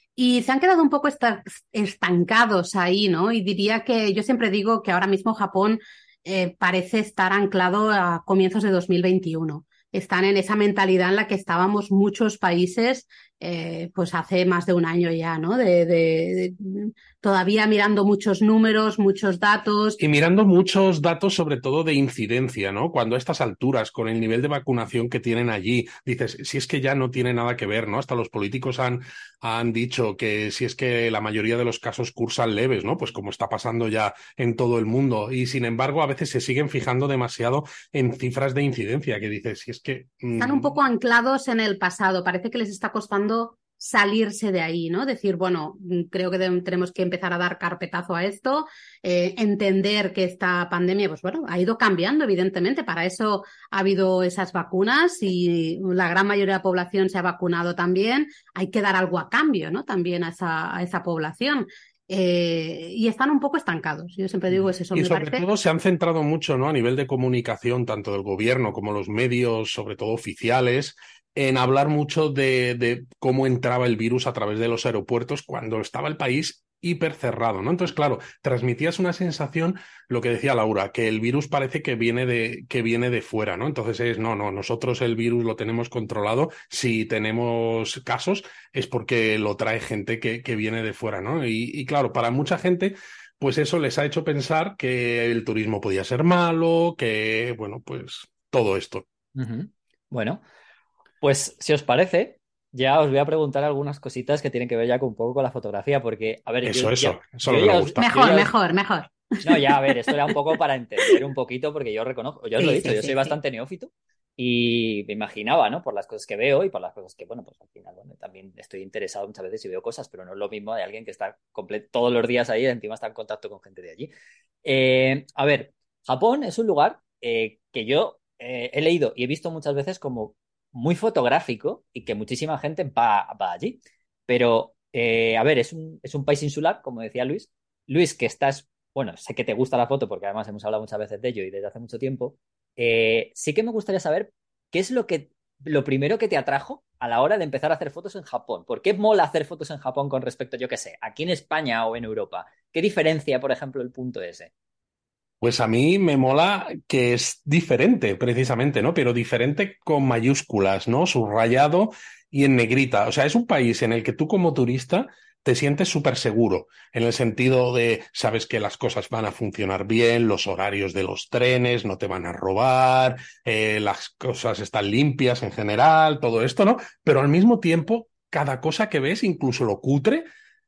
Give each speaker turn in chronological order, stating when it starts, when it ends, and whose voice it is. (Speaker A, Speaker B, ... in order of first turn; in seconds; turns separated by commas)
Speaker A: 0.2-20.0, Speaker B: 20.0-40.8, Speaker A: 40.4-65.4, Speaker B: 64.9-99.0, Speaker C: 99.4-100.4, Speaker C: 101.2-108.5, Speaker B: 106.6-108.1, Speaker A: 108.0-110.3, Speaker C: 109.4-124.1, Speaker A: 112.6-113.4, Speaker C: 124.6-154.5, Speaker B: 155.4-180.2